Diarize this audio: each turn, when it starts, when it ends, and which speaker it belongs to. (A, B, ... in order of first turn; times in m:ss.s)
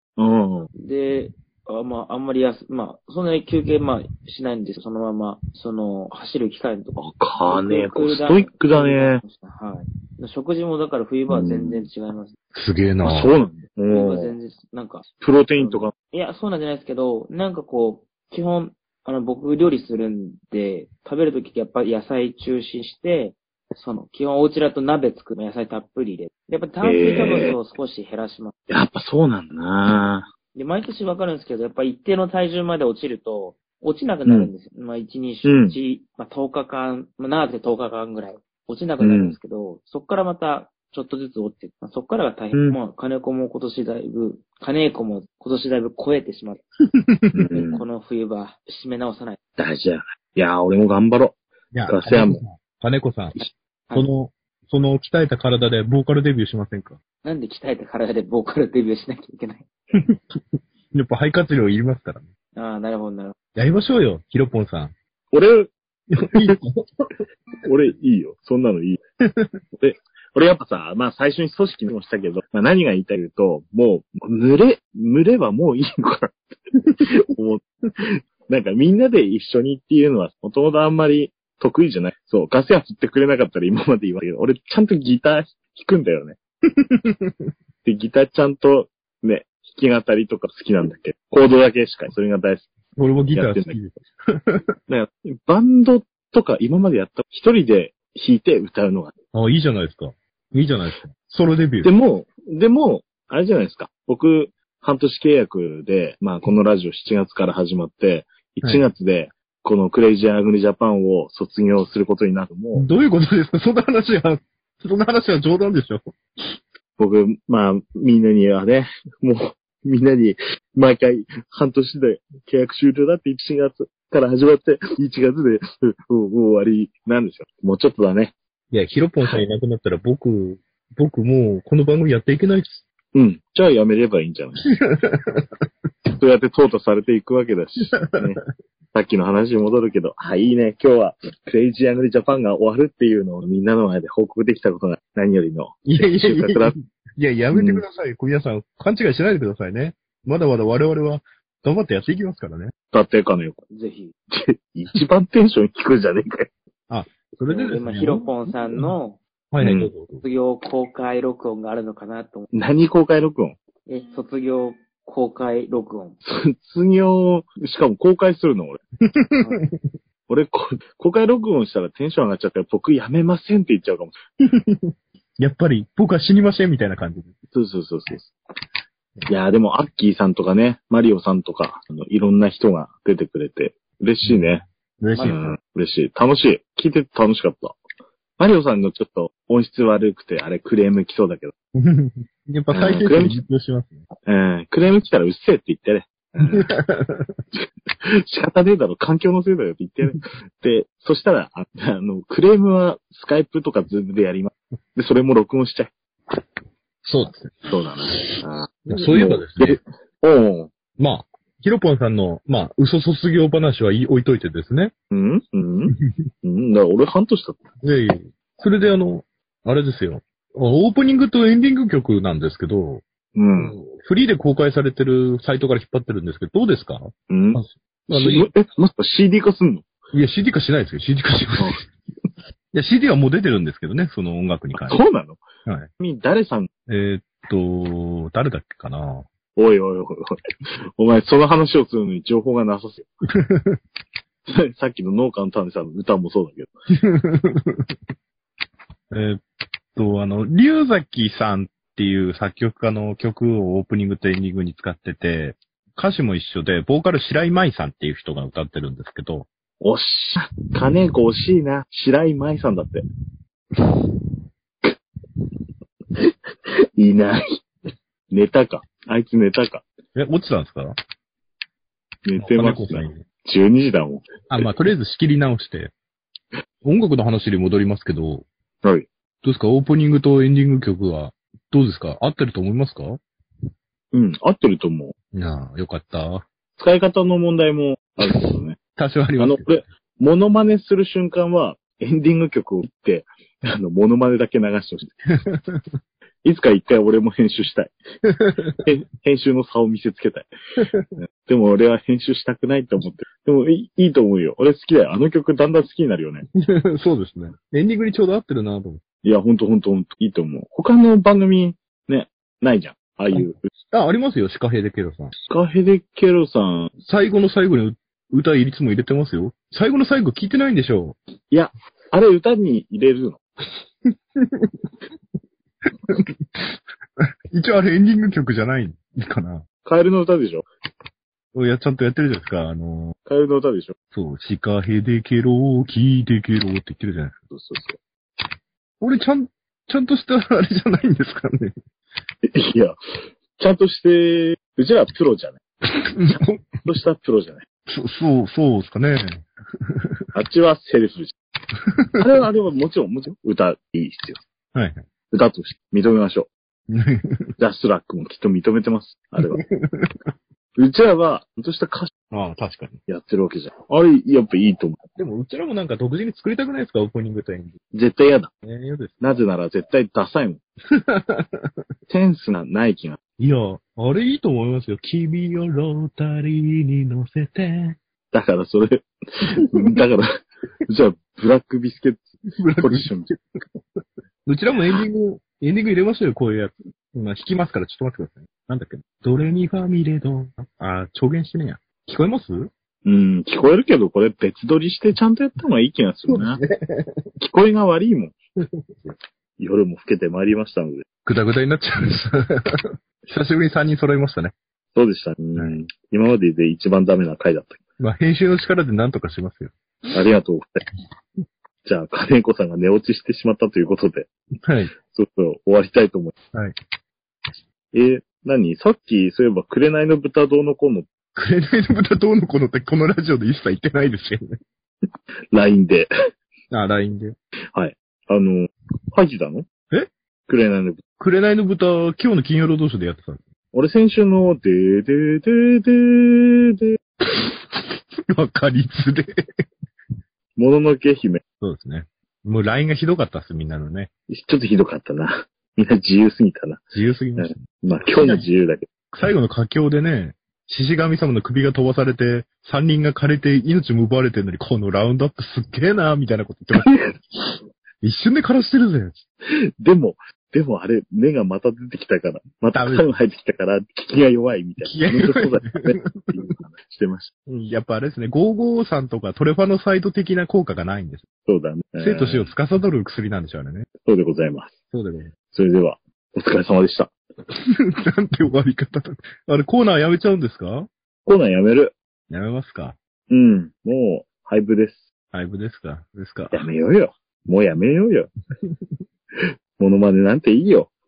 0:00.2-0:00.7 A
0:00.7-0:12.3 B
0:07.0-0:09.2 A
0:11.3-0:11.8 A
0:12.5-0:13.3 C
0:13.0-0:14.4 A
0:13.9-0:28.5 B
0:15.2-0:15.9 A
0:26.8-0:27.5 A
0:28.7-0:30.3 A
0:30.5-0:46.6 B
0:34.2-0:34.5 A
0:35.4-0:35.8 A
0:39.0-0:39.4 A
0:47.0-0:47.4 C
0:47.3-0:47.8 A
0:47.5-0:49.4 B
0:49.6-0:51.4 A
0:51.7-0:57.0 C
0:51.9-0:52.4 A
0:57.2-0:59.6 B
0:59.9-1:02.3 C
1:02.5-1:03.3 B
1:03.6-1:04.9 C
1:05.3-1:05.7 A
1:06.2-1:07.1 C
1:07.6-1:09.0 A
1:09.3-1:09.6 C
1:09.8-1:16.4 A
1:17.0-1:26.4 A
1:26.7-1:27.5 C
1:27.8-1:32.7 A
1:33.0-1:34.6 C
1:33.3-1:33.7 A
1:34.9-1:39.1 A
1:39.3-1:41.9 C
1:41.8-1:52.8 A
1:52.8-1:56.6 C
1:57.0-2:08.3 A
2:08.7-2:12.8 C
2:13.1-2:14.7 A
2:14.7-2:15.6 C
2:16.2-2:18.4 A
2:18.9-2:26.7 A
2:25.8-2:32.7 C
2:27.5-2:27.8 A
2:32.9-2:33.6 A
2:33.7-2:34.1 B
2:34.3-2:36.5 A
2:36.9-2:38.9 C
2:37.5-2:39.2 B
2:39.5-2:40.2 C
2:39.6-2:39.9 A
2:40.2-2:42.5 B
2:42.5-2:43.6 A
2:43.9-2:46.2 B
2:46.2-2:48.8 A
2:49.0-2:49.8 C
2:50.3-2:54.1 A
2:54.4-2:57.3 C
2:57.5-2:58.3 A
2:59.3-3:04.6 A
3:04.2-3:05.5 C
3:05.2-3:07.8 A
3:08.4-3:11.5 A
3:11.7-3:14.0 C
3:12.7-3:13.4 A
3:14.2-3:16.7 A
3:16.5-3:17.4 C
3:18.0-3:25.9 A
3:27.0-3:28.4 C
3:27.7-3:30.7 A
3:28.9-3:29.8 C
3:31.0-3:34.9 C
3:35.1-3:37.6 A
3:36.0-3:36.3 C
3:37.8-3:43.0 C
3:43.3-3:43.8 A
3:43.6-3:48.5 C
3:47.3-3:49.9 A
3:50.1-3:51.8 C
3:51.6-3:51.8 A
3:52.7-3:55.0 C
3:54.7-3:55.4 A
3:56.0-3:56.7 A
3:56.9-3:59.2 C
3:59.6-4:00.4 A
4:01.0-4:03.1 A
4:03.3-4:03.8 C
4:04.5-4:06.7 A
4:07.0-4:07.9 C
4:09.1-4:09.4 C
4:10.0-4:19.5 C
4:19.8-4:23.0 A
4:27.0-4:27.6 A
4:28.3-4:29.8 A
4:30.1-4:30.9 C
4:32.2-4:34.6 A
4:32.4-4:33.2 C
4:34.5-4:35.9 C
4:36.8-4:38.4 C
4:39.4-4:43.2 C
4:44.1-4:45.1 A
4:45.3-4:46.4 C
4:46.8-4:48.8 A
4:48.2-4:49.8 C
4:49.4-4:55.2 A
4:55.3-4:56.0 C
4:56.4-4:57.9 A
4:58.3-4:58.8 C
4:58.8-5:00.5 A
5:00.8-5:01.1 C
5:01.2-5:06.4 A
5:06.5-5:09.0 C
5:09.2-5:13.6 A
5:13.3-5:15.3 C
5:15.5-5:16.9 A
5:17.0-5:21.2 C
5:21.5-5:23.4 A
5:24.0-5:24.8 C
5:25.8-5:29.6 C
5:29.8-5:30.6 A
5:31.5-5:33.2 C
5:33.2-5:33.9 A
5:34.1-5:37.4 C
5:37.5-5:38.0 A
5:39.0-5:41.8 C
5:42.4-5:43.0 A
5:43.6-5:45.6 A
5:45.9-5:46.6 C
5:46.8-5:47.6 A
5:47.9-5:50.2 C
5:50.3-5:51.3 A
5:51.8-5:52.2 C
5:52.2-5:54.4 A
5:54.7-5:55.0 C
5:55.3-5:56.5 A
5:56.9-5:57.5 C
5:57.6-5:59.6 A
5:59.6-6:00.1 C
6:00.8-6:02.1 A
6:02.3-6:03.0 C
6:03.1-6:05.0 A
6:05.2-6:07.8 C
6:07.9-6:08.5 A
6:08.6-6:09.4 C
6:09.2-6:10.6 A
6:10.9-6:11.7 C
6:12.1-6:13.2 A
6:13.4-6:18.0 C
6:18.3-6:20.3 A
6:19.6-6:20.0 C
6:20.9-6:23.3 A
6:22.6-6:32.7 C
6:33.0-6:36.6 A
6:36.3-6:37.2 C
6:37.4-6:38.4 A
6:38.7-6:39.1 C
6:39.6-6:41.0 A
6:41.2-6:44.5 C
6:44.9-6:47.8 A
6:48.0-6:49.7 C
6:50.1-6:50.8 A
6:51.8-6:54.3 A
6:54.6-6:54.9 C
6:55.1-6:56.3 A
6:57.9-7:01.1 A
7:01.3-7:04.4 C
7:05.5-7:06.1 A
7:06.7-7:07.3 C
7:07.7-7:09.7 A
7:10.5-7:11.0 A
7:11.2-7:13.4 C
7:13.7-7:17.0 A
7:17.3-7:19.3 C
7:20.6-7:21.4 A
7:21.6-7:24.1 C
7:24.3-7:26.8 A
7:26.9-7:28.4 C
7:27.4-7:28.9 A
7:29.1-7:37.1 C
7:36.8-7:37.1 A
7:38.0-7:39.2 C
7:39.5-7:47.3 A
7:42.7-7:43.1 C
7:44.8-7:46.5 C
7:47.5-7:51.2 C
7:51.4-7:52.5 A
7:52.0-7:53.9 C
7:54.0-7:54.8 A
7:54.9-7:55.3 C
7:55.5-7:57.1 A
7:57.5-8:00.9 C
8:01.2-8:01.9 A
8:02.3-8:03.0 C
8:03.3-8:05.0 A
8:05.3-8:06.6 C
8:06.5-8:08.3 A
8:09.4-8:10.9 A